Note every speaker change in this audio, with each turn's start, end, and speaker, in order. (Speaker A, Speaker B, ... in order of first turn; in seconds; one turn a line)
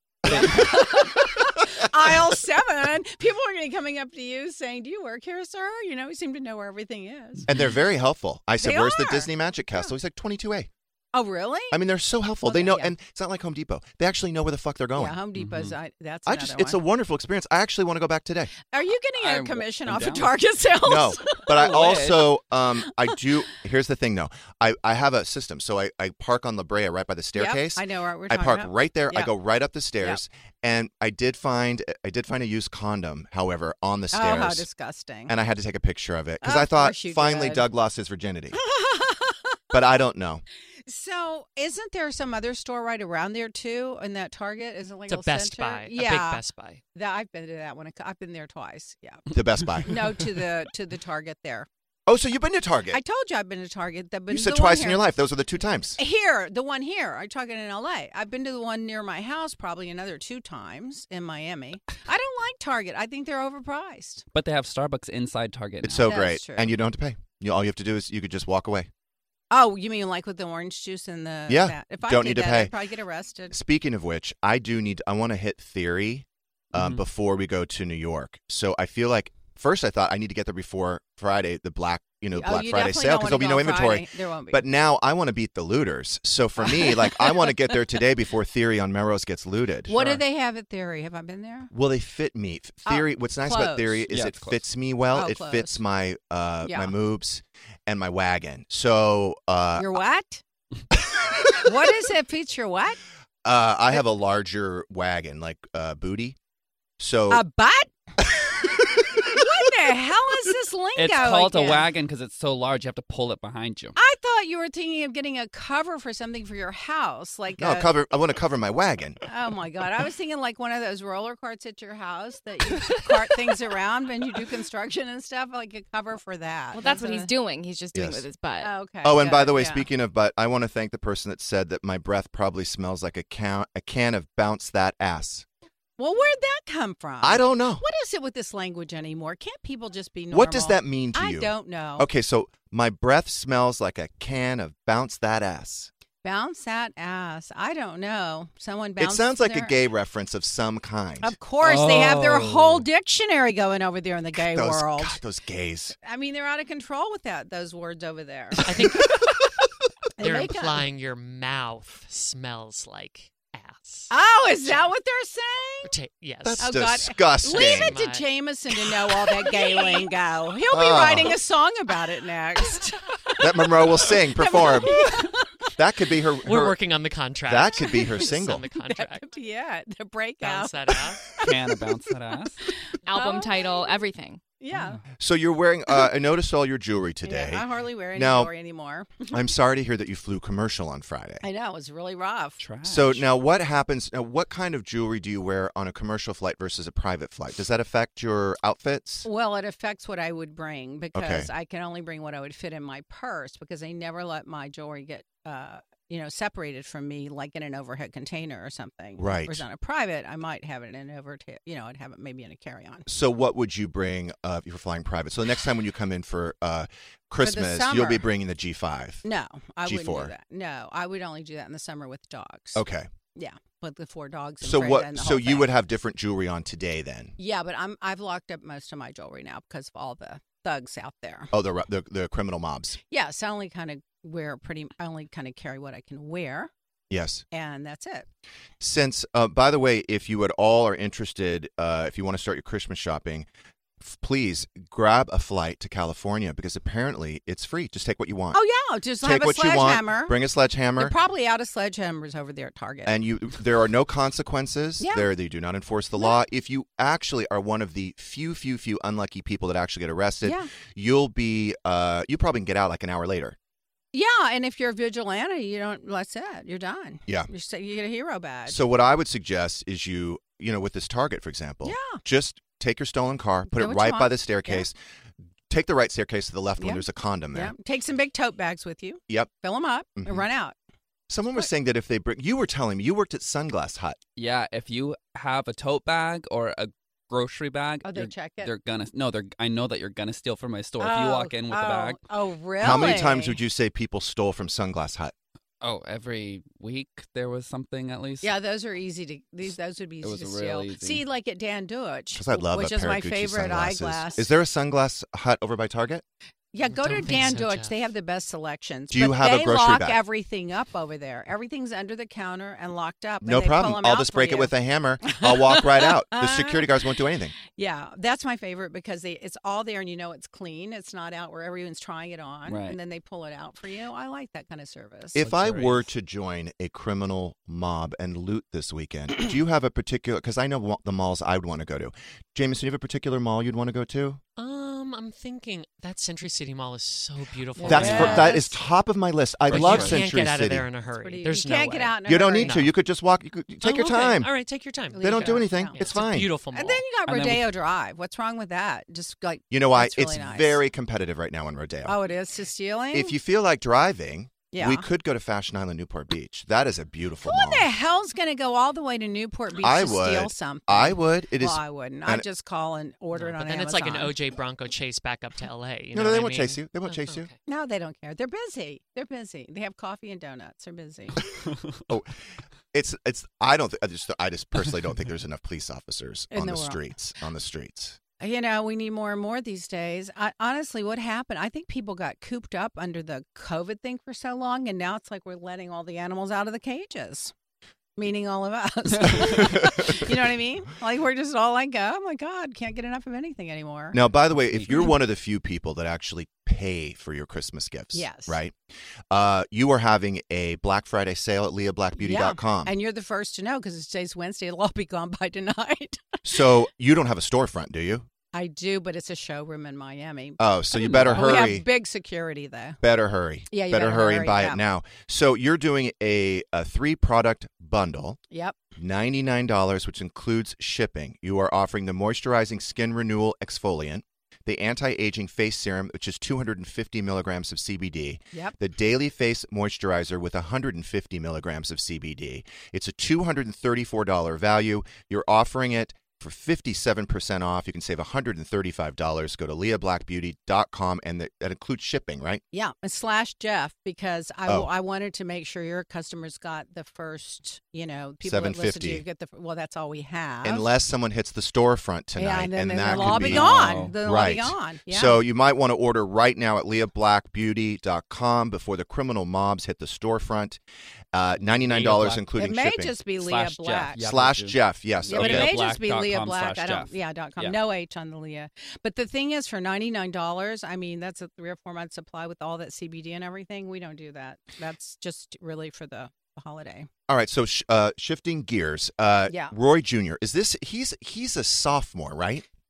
Speaker A: 0.3-0.7
Speaker B: 0.3-1.1
Speaker C: 0.3-7.5
Speaker A: 7.5-10.7
Speaker C: 8.6-9.3
Speaker C: 11.1-11.8
Speaker A: 11.7-15.2
Speaker C: 12.4-12.9
Speaker C: 15.0-16.8
Speaker B: 15.4-15.8
Speaker A: 16.3-18.5
Speaker C: 18.7-21.9
Speaker B: 19.2-20.4
Speaker A: 20.8-34.7
Speaker B: 21.5-22.3
Speaker C: 27.3-29.3
Speaker C: 34.1-35.3
Speaker A: 35.3-38.6
Speaker C: 36.4-37.6
Speaker C: 38.6-39.4
Speaker A: 39.7-40.4
Speaker C: 40.9-46.4
Speaker D: 45.1-46.8
Speaker C: 47.0-49.2
Speaker A: 49.3-50.2
Speaker C: 49.8-51.7
Speaker A: 52.1-53.0
Speaker C: 52.9-55.0
Speaker A: 54.3-56.0
Speaker C: 56.0-64.2
Speaker B: 64.3-66.1
Speaker A: 65.8-68.9
Speaker C: 66.0-66.7
Speaker C: 69.5-73.5
Speaker A: 71.5-72.7
Speaker A: 73.5-90.2
Speaker B: 76.7-77.0
Speaker C: 82.3-84.6
Speaker C: 86.6-87.3
Speaker C: 89.9-91.7
Speaker A: 91.7-99.9
Speaker C: 92.9-94.0
Speaker B: 94.1-94.6
Speaker C: 95.1-95.8
Speaker C: 96.7-96.9
Speaker C: 99.8-100.4
Speaker C: 101.6-103.0
Speaker A: 103.4-106.4
Speaker A: 107.0-107.4
Speaker C: 107.3-111.9
Speaker B: 111.0-114.0
Speaker C: 114.0-117.9
Speaker A: 117.6-119.2
Speaker C: 119.3-127.3
Speaker E: 126.7-128.7
Speaker A: 127.9-128.2
Speaker C: 128.6-129.9
Speaker A: 129.0-135.5
Speaker C: 136.0-142.1
Speaker A: 137.2-137.8
Speaker A: 140.3-145.9
Speaker C: 146.2-149.8
Speaker A: 149.0-151.3
Speaker C: 151.2-155.2
Speaker B: 151.6-152.8
Speaker A: 154.3-156.0
Speaker C: 156.0-158.7
Speaker D: 158.7-159.2
Speaker C: 160.2-160.9
Speaker D: 160.2-164.1
Speaker C: 164.1-165.9
Speaker D: 165.8-166.8
Speaker A: 166.4-168.0
Speaker C: 166.6-175.5
Speaker D: 167.4-168.3
Speaker A: 170.7-171.4
Speaker A: 173.4-175.2
Speaker A: 175.8-176.8
Speaker D: 176.4-179.3
Speaker A: 177.4-178.6
Speaker C: 178.0-181.5
Speaker D: 180.4-181.3
Speaker B: 181.4-182.7
Speaker C: 182.7-184.0
Speaker E: 183.1-184.4
Speaker C: 184.6-185.0
Speaker B: 184.7-185.0
Speaker A: 185.2-188.5
Speaker C: 187.2-189.3
Speaker A: 189.3-191.4
Speaker C: 191.4-192.6
Speaker B: 192.6-193.2
Speaker A: 192.8-199.3
Speaker C: 199.2-213.1
Speaker A: 201.2-201.5
Speaker A: 209.2-209.6
Speaker A: 213.1-219.2
Speaker C: 217.4-218.3
Speaker C: 219.2-222.8
Speaker A: 219.8-220.3
Speaker A: 222.8-223.1
Speaker C: 223.3-225.7
Speaker A: 224.6-227.3
Speaker C: 227.4-231.5
Speaker A: 231.5-233.0
Speaker C: 233.1-236.7
Speaker A: 237.1-237.4
Speaker C: 237.5-238.3
Speaker A: 238.8-243.5
Speaker A: 244.0-248.6
Speaker C: 248.5-250.3
Speaker A: 249.2-251.2
Speaker C: 251.0-253.1
Speaker A: 253.1-263.6
Speaker C: 255.0-255.3
Speaker C: 260.4-260.7
Speaker C: 264.1-268.8
Speaker A: 268.7-275.0
Speaker C: 271.9-272.2
Speaker C: 273.7-274.9
Speaker A: 275.7-277.8
Speaker C: 276.8-280.8
Speaker A: 280.2-280.5
Speaker A: 281.3-284.2
Speaker B: 284.4-292.2
Speaker C: 288.0-288.7
Speaker C: 291.0-293.6
Speaker A: 292.8-295.3
Speaker B: 295.8-298.5
Speaker C: 298.4-304.5
Speaker B: 300.2-301.2
Speaker A: 302.3-306.2
Speaker C: 306.7-316.9
Speaker D: 306.9-307.9
Speaker A: 309.1-310.2
Speaker A: 313.4-317.6
Speaker C: 317.7-325.5
Speaker B: 322.7-323.0
Speaker A: 325.4-334.4
Speaker B: 325.4-326.0
Speaker D: 334.6-338.6
Speaker C: 337.8-338.8
Speaker B: 337.8-338.6
Speaker A: 337.9-340.9
Speaker B: 339.7-340.2
Speaker D: 339.7-342.9
Speaker C: 341.2-342.8
Speaker A: 342.3-344.5
Speaker D: 343.8-347.0
Speaker C: 345.1-346.1
Speaker A: 345.2-346.5
Speaker C: 346.7-350.8
Speaker B: 347.3-347.7
Speaker A: 349.7-352.2
Speaker C: 352.1-353.4
Speaker A: 353.1-357.9
Speaker C: 354.7-355.1
Speaker C: 357.4-364.4
Speaker A: 359.8-362.5
Speaker D: 363.3-367.6
Speaker A: 366.1-367.5
Speaker C: 367.7-371.4
Speaker A: 372.1-372.3
Speaker A: 372.9-378.2
Speaker C: 376.5-377.0
Speaker C: 378.4-387.5
Speaker C: 388.2-394.2
Speaker A: 389.4-390.3
Speaker A: 394.1-398.8
Speaker C: 398.1-398.6
Speaker A: 399.3-402.9
Speaker C: 402.2-406.4
Speaker A: 406.4-408.3
Speaker C: 408.5-413.0
Speaker A: 410.6-411.9
Speaker B: 411.0-411.7
Speaker A: 413.0-418.4
Speaker C: 413.7-414.8
Speaker C: 418.5-418.8
Speaker A: 419.0-442.6
Speaker C: 442.7-450.9
Speaker A: 448.4-449.2
Speaker A: 450.6-460.8
Speaker C: 452.4-455.4
Speaker B: 453.1-454.2
Speaker A: 461.3-463.2
Speaker B: 461.6-462.4
Speaker C: 462.5-464.2
Speaker B: 463.4-467.8
Speaker A: 464.2-465.7
Speaker C: 465.3-477.1
Speaker A: 477.3-482.7
Speaker C: 479.5-479.7